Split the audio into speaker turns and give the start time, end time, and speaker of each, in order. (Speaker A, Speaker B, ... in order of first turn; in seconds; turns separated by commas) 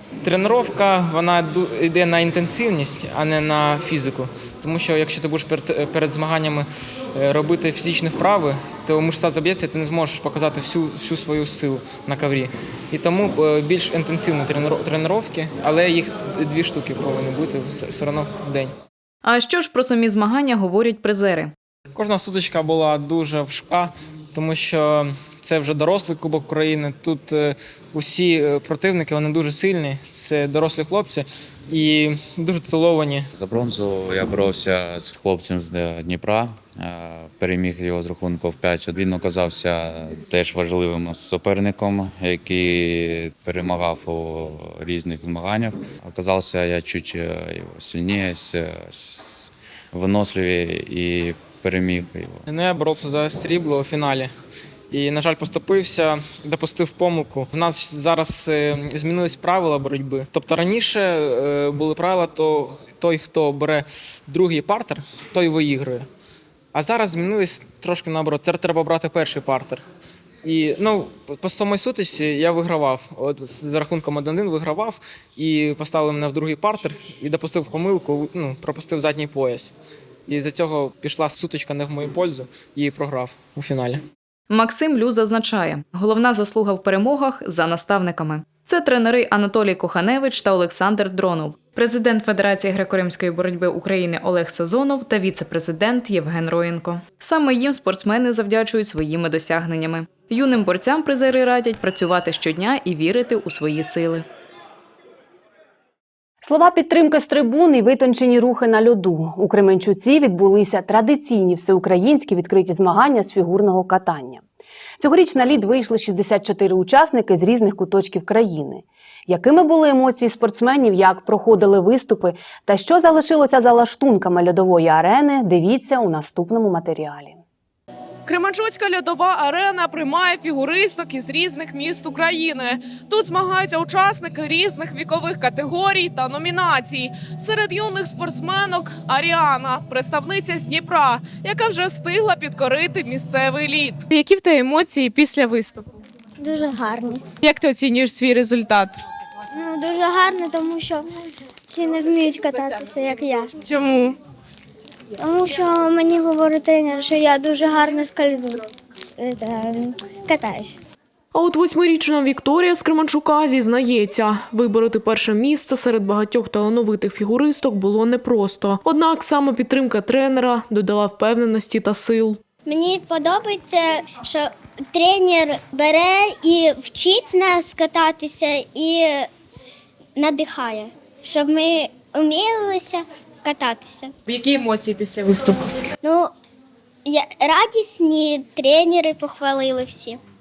Speaker A: 0.2-18.7, Speaker B: 19.2-21.5, Speaker A: 21.9-33.3, Speaker C: 33.3-52.5, Speaker A: 52.5-54.3, Speaker A: 54.9-66.1, Speaker A: 66.7-69.8, Speaker A: 70.4-79.8, Speaker A: 80.3-84.0, Speaker B: 84.5-104.3, Speaker D: 106.4-114.4, Speaker D: 115.0-127.4, Speaker E: 128.3-145.9, Speaker F: 146.4-147.2, Speaker E: 147.4-149.0, Speaker F: 149.5-151.1, Speaker F: 151.7-153.5, Speaker E: 153.6-154.2, Speaker F: 155.2-158.6, Speaker F: 159.2-160.8, Speaker G: 161.3-172.4, Speaker F: 172.7-179.3, Speaker F: 180.2-184.1, Speaker E: 184.3-185.6, Speaker F: 186.0-186.3, Speaker F: 187.1-190.2